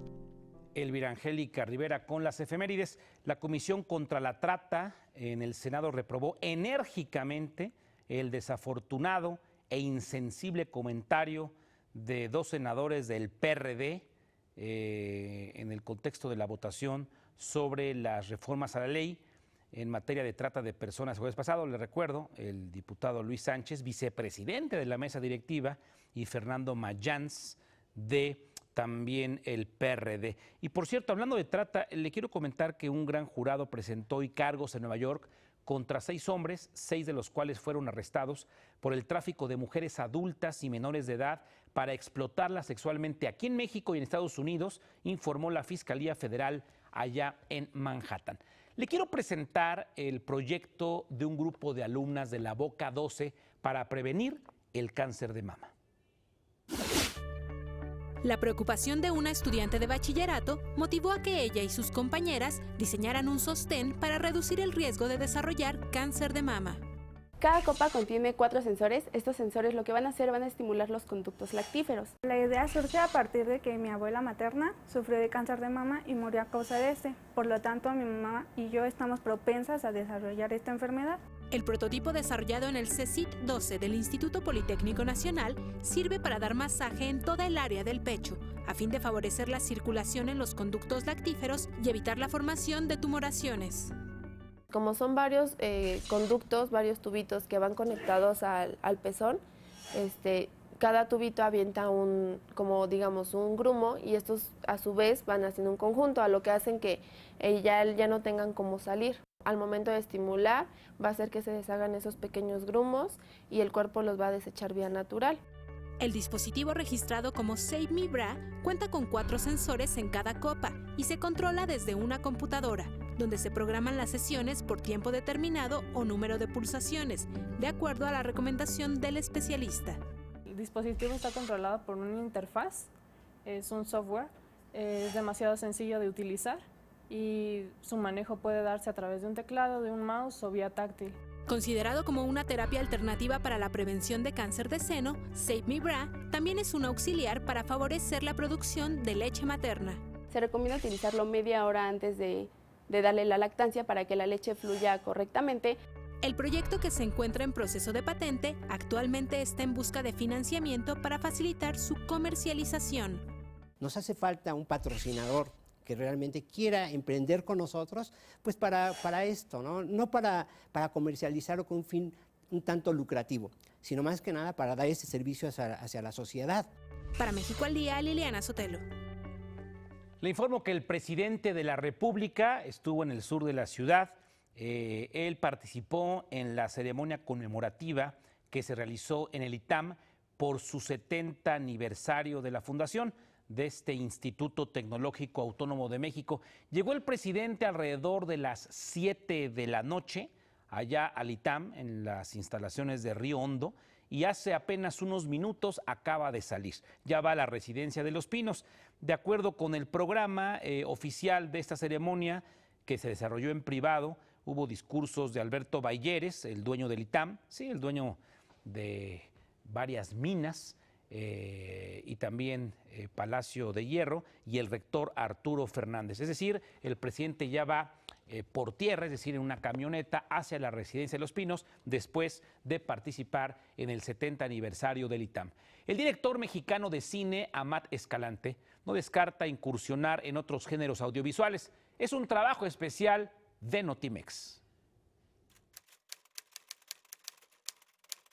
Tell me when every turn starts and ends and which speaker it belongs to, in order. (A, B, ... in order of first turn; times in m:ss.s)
0:00.7-0:55.7 A
0:58.2-1:06.8 B
1:07.4-1:12.1 C
1:12.2-1:21.2 D
1:21.5-1:33.9 B
1:34.7-1:39.4 C
1:39.9-1:55.4 C
1:56.0-2:10.0 B
2:10.5-2:12.9 E
2:13.4-2:21.2 E
2:21.5-2:30.0 B
2:30.3-2:35.8 C
2:36.2-2:43.2 B
2:43.8-2:56.7 F
2:57.2-2:58.8 B
3:00.2-4:04.6 A